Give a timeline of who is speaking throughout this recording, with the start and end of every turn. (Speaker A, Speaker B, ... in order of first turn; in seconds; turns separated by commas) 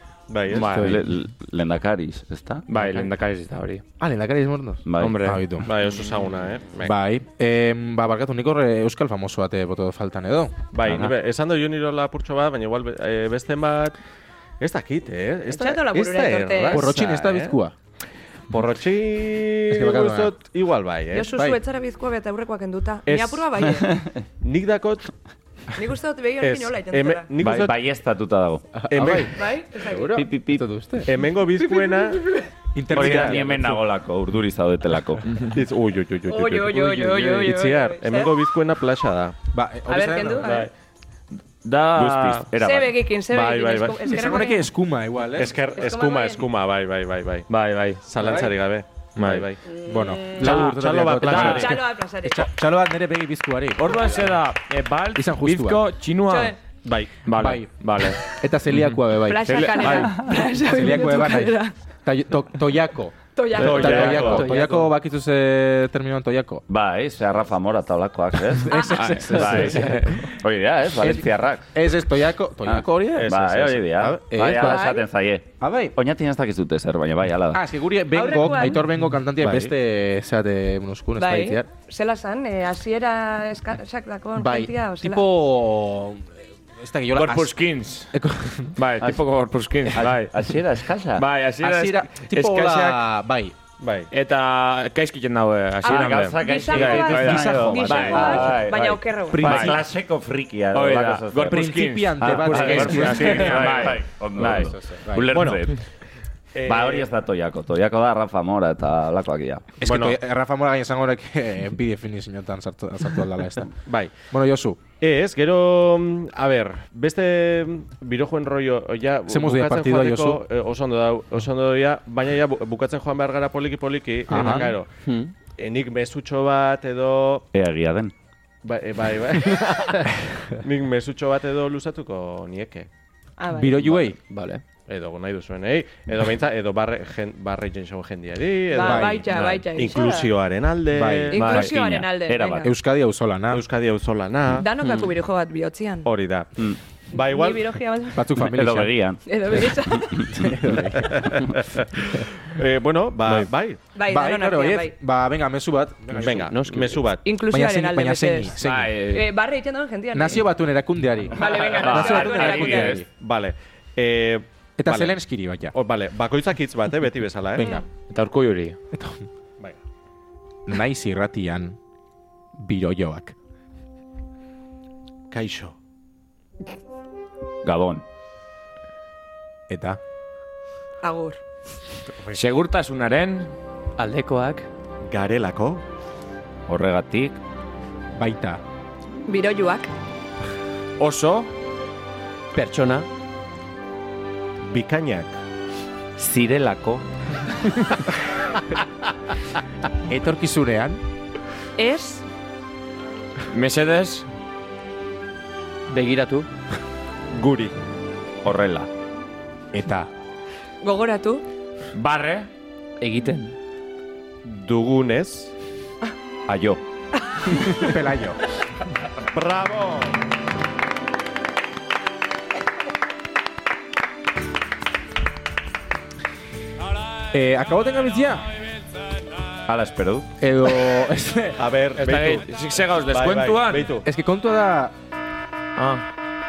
Speaker A: 0.3-0.7, Speaker B: 0.5-1.0, Speaker C: 0.7-2.9, Speaker B: 2.7-3.8, Speaker D: 4.0-5.7, Speaker C: 4.8-5.3, Speaker B: 5.0-5.4, Speaker A: 5.6-6.9, Speaker D: 6.8-10.6, Speaker A: 10.7-13.9, Speaker C: 10.8-11.1, Speaker A: 14.6-17.6, Speaker E: 15.5-16.9, Speaker D: 16.7-17.7, Speaker A: 18.5-21.4, Speaker D: 19.7-20.3, Speaker E: 21.1-23.9, Speaker D: 21.3-21.6, Speaker A: 23.1-23.4, Speaker A: 24.4-25.1, Speaker E: 25.7-27.3, Speaker A: 26.4-27.8, Speaker C: 27.4-28.7, Speaker D: 28.8-31.2, Speaker A: 28.9-29.3, Speaker E: 29.3-30.3, Speaker C: 30.1-30.7, Speaker A: 31.1-32.2, Speaker D: 32.7-33.8, Speaker C: 32.9-35.4, Speaker A: 33.0-33.4, Speaker A: 35.5-39.3, Speaker E: 36.3-38.4, Speaker D: 39.5-40.6, Speaker E: 39.9-40.7, Speaker B: 40.4-40.7, Speaker B: 41.6-42.5, Speaker C: 41.9-43.0, Speaker E: 42.6-44.7, Speaker A: 43.3-44.0, Speaker D: 44.0-45.5, Speaker A: 45.4-47.5, Speaker E: 45.7-46.4, Speaker B: 47.5-48.0, Speaker A: 48.0-49.6, Speaker D: 48.2-48.5, Speaker B: 49.1-49.5, Speaker E: 49.7-50.6, Speaker D: 49.8-54.2, Speaker A: 50.4-51.8, Speaker E: 51.3-52.5, Speaker B: 53.8-56.5, Speaker D: 55.1-55.8, Speaker E: 56.3-56.6, Speaker A: 56.8-57.2, Speaker B: 57.2-58.2, Speaker D: 57.3-60.0, Speaker B: 58.8-60.2, Speaker E: 59.2-61.7, Speaker C: 59.9-60.3, Speaker D: 60.6-66.6, Speaker E: 63.4-64.4, Speaker A: 63.6-64.4, Speaker C: 63.6-64.4, Speaker F: 64.1-64.9, Speaker C: 66.7-71.7, Speaker D: 68.6-70.2, Speaker E: 68.7-69.0, Speaker B: 69.1-70.2, Speaker D: 71.7-74.9, Speaker C: 72.6-77.6, Speaker E: 74.5-75.0, Speaker D: 75.6-75.9, Speaker D: 77.5-81.7, Speaker E: 78.1-78.8, Speaker A: 79.4-79.7, Speaker E: 81.2-85.2, Speaker D: 84.3-87.5, Speaker B: 87.1-88.1, Speaker D: 88.1-88.7, Speaker B: 88.8-90.3, Speaker C: 89.9-91.3, Speaker B: 91.1-93.0, Speaker D: 91.6-93.5, Speaker A: 93.8-94.1, Speaker B: 94.1-99.8, Speaker C: 95.8-105.8, Speaker E: 95.8-99.7, Speaker D: 97.2-98.6, Speaker D: 99.3-99.8, Speaker B: 100.7-104.7, Speaker D: 101.5-105.3, Speaker A: 105.3-105.6, Speaker A: 106.5-107.1, Speaker C: 106.6-109.8, Speaker D: 109.8-113.7, Speaker A: 109.8-110.2, Speaker A: 113.8-114.1, Speaker D: 114.3-114.8, Speaker A: 115.0-124.9, Speaker D: 119.3-120.4, Speaker D: 124.3-124.7, Speaker F: 124.3-125.3, Speaker A: 125.6-127.5, Speaker C: 127.5-128.1, Speaker A: 128.6-132.9, Speaker E: 133.4-133.8, Speaker D: 133.5-134.2, Speaker F: 134.3-134.6, Speaker A: 134.9-141.6, Speaker E: 138.7-140.3, Speaker D: 138.8-139.4, Speaker D: 140.9-141.7, Speaker E: 141.3-142.7, Speaker C: 141.4-142.7, Speaker D: 142.6-143.6, Speaker A: 143.5-144.7, Speaker E: 144.5-146.1, Speaker F: 144.8-145.1, Speaker A: 146.0-146.5, Speaker A: 147.1-147.7, Speaker E: 147.1-148.3, Speaker D: 148.1-148.9, Speaker C: 148.4-150.4, Speaker E: 149.2-150.3, Speaker D: 150.3-151.5, Speaker A: 151.2-153.8, Speaker E: 153.9-154.9, Speaker D: 154.1-156.5, Speaker A: 156.2-157.2, Speaker F: 156.2-157.0, Speaker E: 157.2-158.6, Speaker D: 157.5-158.9, Speaker B: 158.6-159.2, Speaker E: 159.1-160.5, Speaker D: 160.1-163.1, Speaker E: 161.3-163.0, Speaker B: 161.4-163.0, Speaker A: 163.1-165.2, Speaker D: 164.8-165.7, Speaker A: 165.7-167.8, Speaker D: 167.6-167.8, Speaker B: 168.0-168.8, Speaker D: 168.9-169.2, Speaker D: 170.7-171.8, Speaker D: 172.6-173.3, Speaker A: 175.3-175.8, Speaker C: 177.6-178.0, Speaker D: 179.7-180.0, Speaker E: 181.0-181.4, Speaker B: 182.3-183.5, Speaker F: 184.0-184.7, Speaker A: 185.1-185.8, Speaker C: 186.7-187.4, Speaker D: 188.1-188.6, Speaker E: 189.3-189.9, Speaker A: 191.0-191.5, Speaker F: 192.5-193.1, Speaker A: 194.6-195.3, Speaker C: 196.2-197.0, Speaker D: 200.1-201.0, Speaker E: 201.8-202.2, Speaker B: 203.5-204.3, Speaker F: 205.9-206.5, Speaker A: 207.3-207.7, Speaker C: 208.4-208.9, Speaker D: 209.7-210.1, Speaker E: 210.8-211.4, Speaker B: 211.9-212.5, Speaker F: 213.0-213.5, Speaker A: 214.4-215.5, Speaker C: 216.5-216.8, Speaker E: 217.4-217.6, Speaker D: 217.7-218.4, Speaker A: 219.3-220.2, Speaker D: 227.3-228.5, Speaker C: 229.7-230.3, Speaker D: 230.4-231.6, Speaker A: 231.6-234.1, Speaker B: 232.0-233.9, Speaker D: 234.0-234.9